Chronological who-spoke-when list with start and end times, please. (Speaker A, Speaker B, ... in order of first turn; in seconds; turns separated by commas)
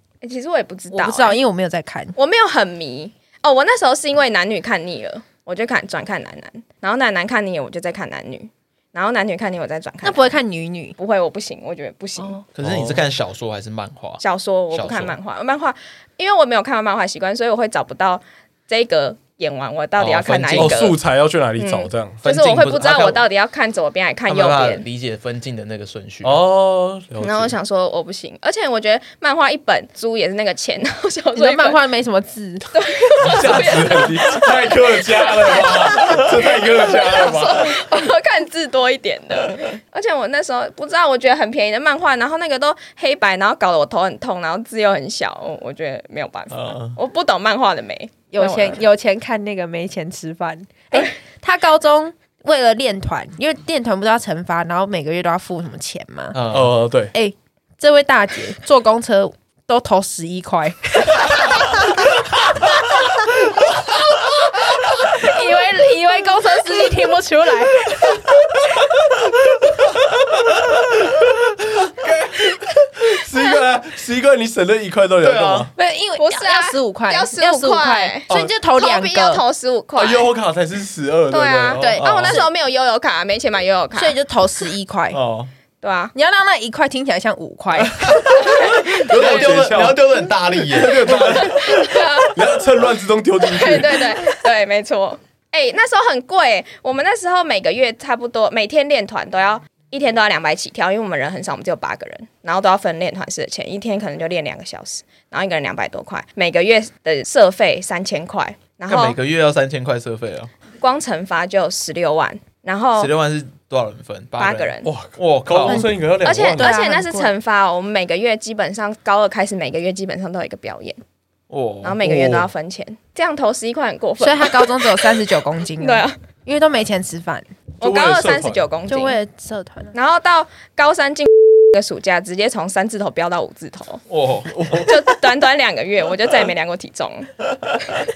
Speaker A: 0.2-1.4, Speaker B: 0.9-2.1, Speaker A: 2.1-10.4, Speaker B: 10.0-10.9, Speaker A: 11.0-12.4, Speaker C: 12.5-14.2, Speaker D: 12.6-13.0, Speaker A: 14.2-21.0, Speaker C: 14.7-15.1, Speaker C: 20.0-20.9, Speaker D: 20.6-22.2, Speaker A: 21.6-24.8, Speaker C: 22.2-23.2, Speaker C: 24.3-26.4, Speaker D: 26.2-27.5, Speaker A: 27.2-31.8, Speaker B: 31.4-32.7, Speaker A: 32.7-48.8, Speaker D: 33.2-37.8, Speaker C: 46.5-46.9, Speaker B: 48.3-56.4, Speaker C: 56.3-56.7, Speaker D: 56.5-57.1, Speaker B: 57.1-62.1, Speaker B: 64.8-68.3, Speaker D: 71.9-75.7, Speaker C: 75.2-75.7, Speaker B: 75.8-79.4, Speaker A: 76.2-80.3, Speaker D: 80.0-82.0, Speaker A: 81.3-84.2, Speaker B: 81.8-82.4, Speaker C: 82.0-82.4, Speaker B: 83.9-85.2, Speaker C: 85.1-85.5, Speaker A: 85.8-86.1, Speaker B: 86.1-88.4, Speaker C: 87.8-91.5, Speaker A: 88.6-89.3, Speaker D: 88.9-94.2, Speaker A: 91.1-92.4, Speaker A: 93.4-109.2, Speaker C: 108.9-110.5, Speaker A: 110.8-113.1, Speaker C: 113.0-115.9, Speaker A: 114.4-114.9, Speaker D: 114.8-116.7, Speaker A: 116.2-121.0, Speaker B: 116.6-117.3, Speaker C: 121.5-122.1, Speaker A: 121.8-125.2, Speaker D: 122.0-122.5, Speaker B: 124.2-127.5, Speaker A: 125.8-126.1, Speaker A: 127.8-129.2, Speaker D: 127.8-128.6, Speaker B: 128.9-129.9, Speaker A: 129.9-134.0, Speaker C: 134.1-134.8, Speaker D: 134.5-134.9, Speaker A: 134.8-137.3